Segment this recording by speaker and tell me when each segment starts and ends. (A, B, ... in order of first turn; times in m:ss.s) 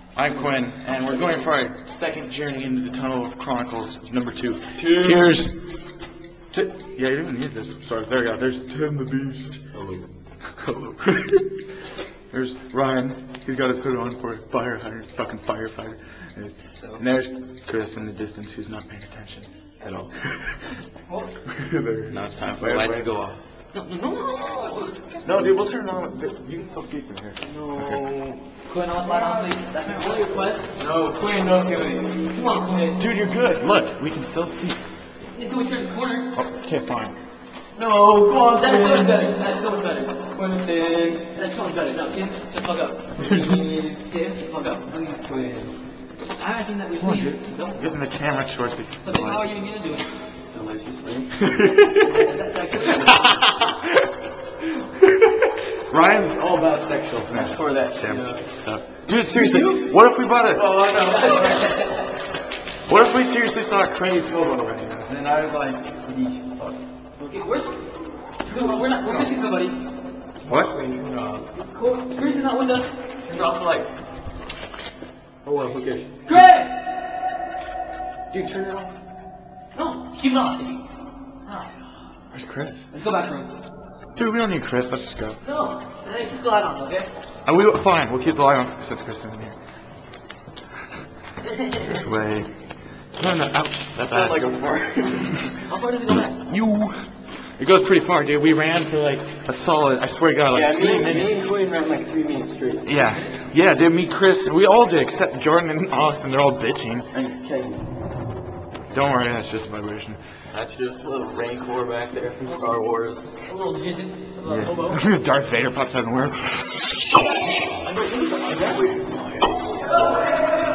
0:00.1-0:05.5 A
0:01.0-0:01.4 B
0:04.8-0:05.4 B
0:06.5-0:09.6 A
0:09.7-0:10.1 B
0:10.6-0:11.4 A
0:12.3-0:19.5 A
0:19.8-0:20.1 B
0:21.9-0:23.3 A
0:22.0-0:23.4 B
0:23.7-0:25.3 C
0:25.2-0:28.0 A
0:27.4-0:28.4 B
0:28.6-0:30.7 C
0:29.0-0:29.5 B
0:30.8-0:32.2 B
0:32.3-0:33.0 C
0:33.0-0:34.8 A
0:35.3-0:36.3 C
0:36.3-0:37.2 A
0:37.8-0:39.3 B
0:38.5-0:40.2 C
0:40.3-0:41.2 B
0:41.3-0:43.0 C
0:43.2-0:44.1 B
0:44.0-0:44.9 C
0:44.8-0:45.7 B
0:46.4-0:47.8 C
0:47.0-0:49.5 A
0:49.0-0:50.1 C
0:50.5-0:51.3 B
0:51.4-0:52.2 A
0:51.9-0:53.4 C
0:52.9-0:54.1 A
0:55.0-0:55.3 A
0:55.9-1:00.8 A
0:57.3-0:58.5 B
0:59.5-0:59.8 B
1:00.5-1:01.7 B
1:01.0-1:02.1 C
1:02.9-1:05.2 A
1:05.0-1:06.8 B
1:07.2-1:07.8 C
1:08.4-1:09.8 C
1:10.4-1:10.7 A
1:10.4-1:11.5 B
1:11.6-1:12.9 C
1:13.2-1:13.9 B
1:15.4-1:16.1 B
1:16.2-1:16.8 C
1:18.3-1:18.9 B
1:19.7-1:20.8 C
1:21.4-1:21.7 C
1:22.3-1:22.9 A
1:22.9-1:23.5 C
1:24.2-1:25.4 A
1:25.4-1:27.1 C
1:27.4-1:29.6 A
1:31.4-1:32.0 C
1:31.9-1:32.5 A
1:33.2-1:34.5 A
1:34.0-1:35.3 B
1:35.6-1:36.4 C
1:36.5-1:37.0 A
1:37.6-1:41.5 A
1:40.5-1:42.9 B
1:42.8-1:47.1 A
1:43.0-1:43.4 C
1:47.1-1:47.8 B
1:48.9-1:50.2 A
1:50.5-1:53.3 B
1:53.4-1:55.0 C
1:54.4-1:57.3 A
1:57.8-1:58.8 C
1:58.5-1:59.4 B